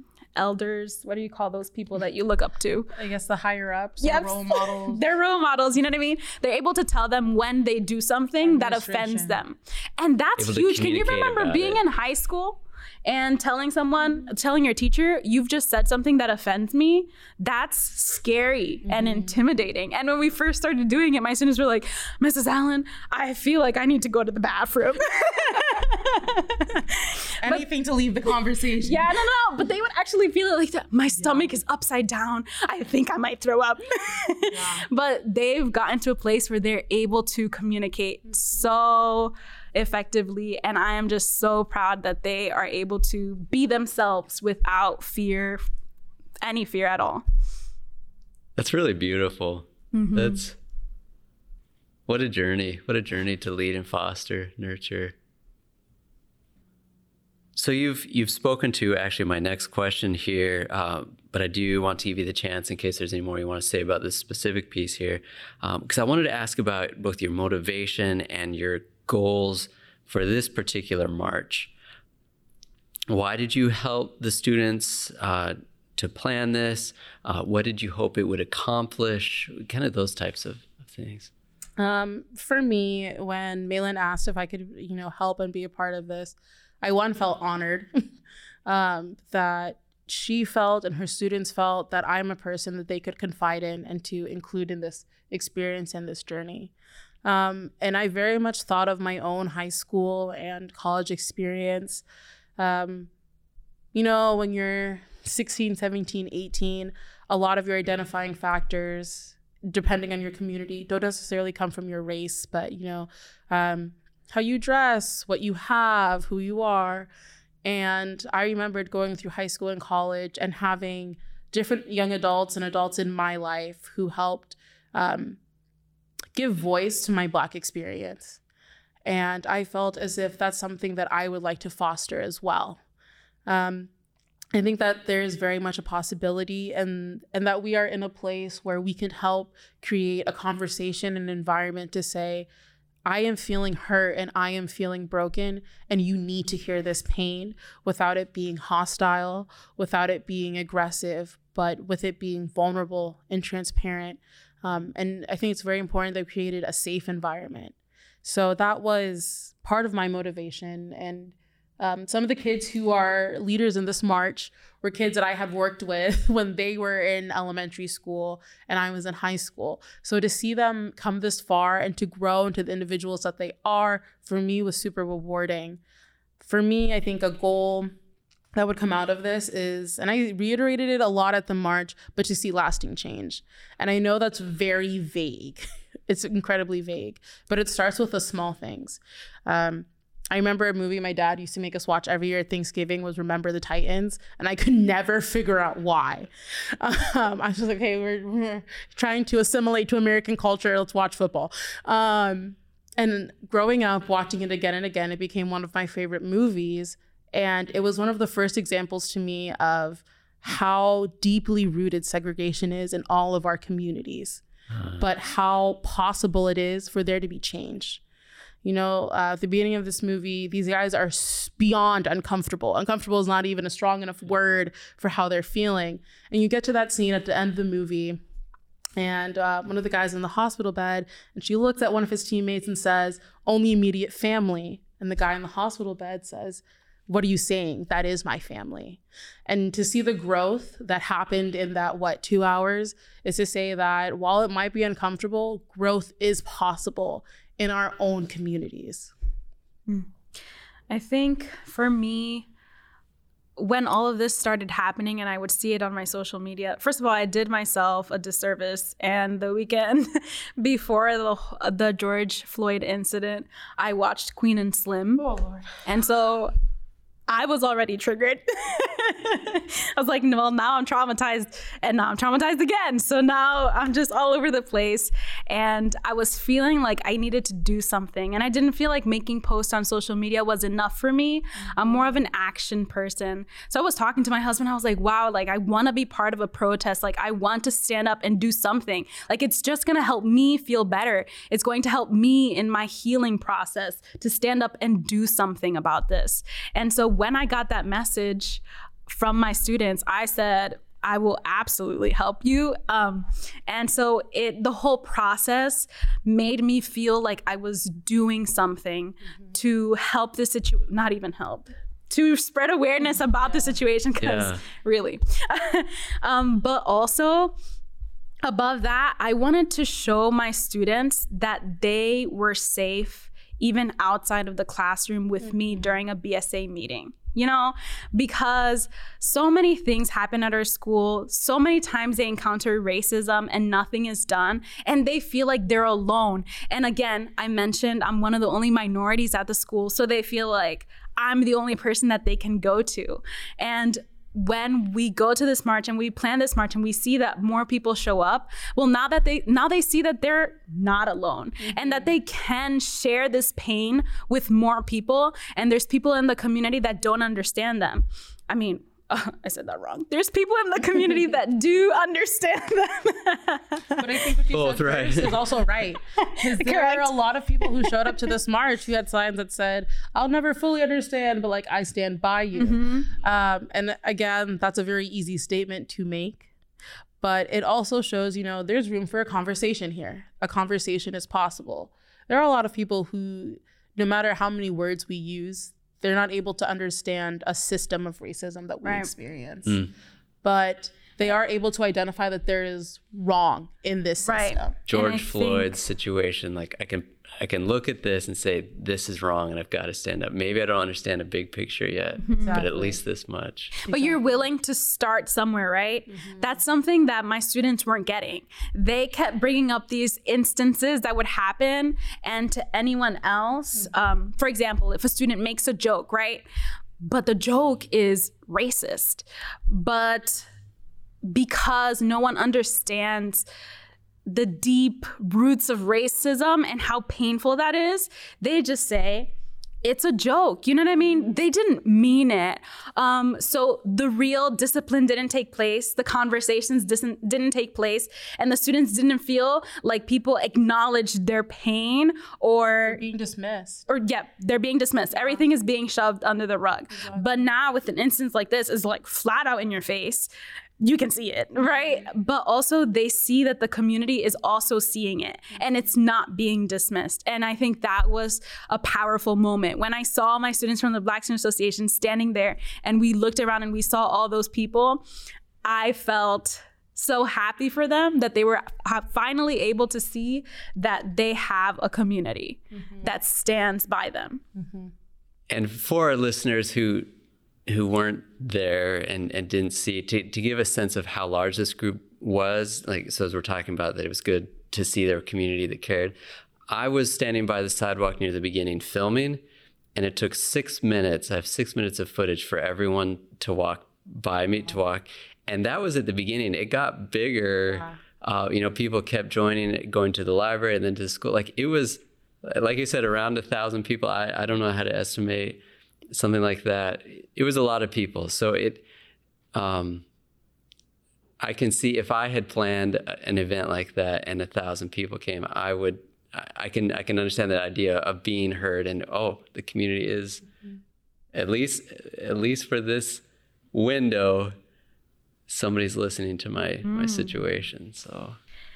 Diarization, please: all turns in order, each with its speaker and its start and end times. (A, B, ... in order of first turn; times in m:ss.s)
0:00.4-0:02.9 A
0:02.9-0:05.0 B
0:04.0-0:27.6 A
0:08.4-0:09.4 B
0:10.4-0:11.8 C
0:18.8-0:19.4 B
0:27.4-0:29.1 B
0:28.8-0:45.6 A
0:31.2-0:31.5 B
0:34.5-0:34.8 B
0:46.4-0:47.2 A
0:48.6-0:50.5 C
0:49.9-0:50.4 A
0:52.1-0:55.1 C
0:57.6-1:11.7 C
1:13.1-1:21.3 C
1:21.8-1:27.9 B
1:28.6-1:36.7 B
1:37.2-1:42.0 B
1:42.6-1:43.1 B
1:43.9-1:57.1 B
1:57.6-2:05.4 B
2:06.3-2:08.4 B
2:09.0-2:12.8 B
2:13.4-2:13.9 B
2:14.5-2:22.5 B
2:23.0-2:55.8 B
2:56.4-2:57.9 B
2:58.5-3:34.4 B
3:35.0-3:38.0 B
3:38.6-3:48.2 B
3:49.0-4:09.1 B
4:10.9-4:12.5 A
4:13.6-4:25.2 A
4:25.2-4:25.7 B
4:25.8-4:26.5 A
4:27.3-5:17.5 A
4:41.6-4:42.2 B
5:13.1-5:13.8 B
5:14.2-5:14.5 C
5:18.4-6:03.8 A
5:25.4-5:26.0 B
5:51.6-5:52.1 B
6:04.0-6:16.5 B
6:04.5-6:05.4 C
6:06.2-6:08.2 A
6:12.5-6:13.1 A
6:17.2-6:29.9 B
6:28.8-6:29.1 A
6:30.4-6:34.7 B
6:34.2-6:35.8 A
6:34.9-6:43.7 C
6:42.2-6:42.6 A
6:42.4-6:43.0 B
6:43.8-6:56.4 A
6:43.9-6:44.4 B
6:46.1-6:46.6 B
6:57.0-7:00.5 A
7:01.2-7:03.4 A
7:04.2-7:23.0 A
7:11.0-7:11.4 B
7:22.8-7:23.8 B
7:23.9-7:30.3 A
7:25.1-7:25.4 B
7:27.0-7:27.3 B
7:30.8-7:45.0 A
7:31.6-7:32.0 B
7:45.6-7:54.4 A
7:52.7-7:53.1 B
7:54.6-7:54.9 B
7:55.5-7:57.1 C
7:57.7-8:06.1 C
8:06.7-8:09.4 C
8:10.0-8:25.6 C
8:17.7-8:18.0 B
8:26.1-8:28.8 C
8:29.5-8:30.0 C
8:31.4-8:40.4 C
8:41.3-8:43.2 C
8:43.7-8:44.5 C
8:45.5-8:48.4 C
8:46.8-8:47.3 A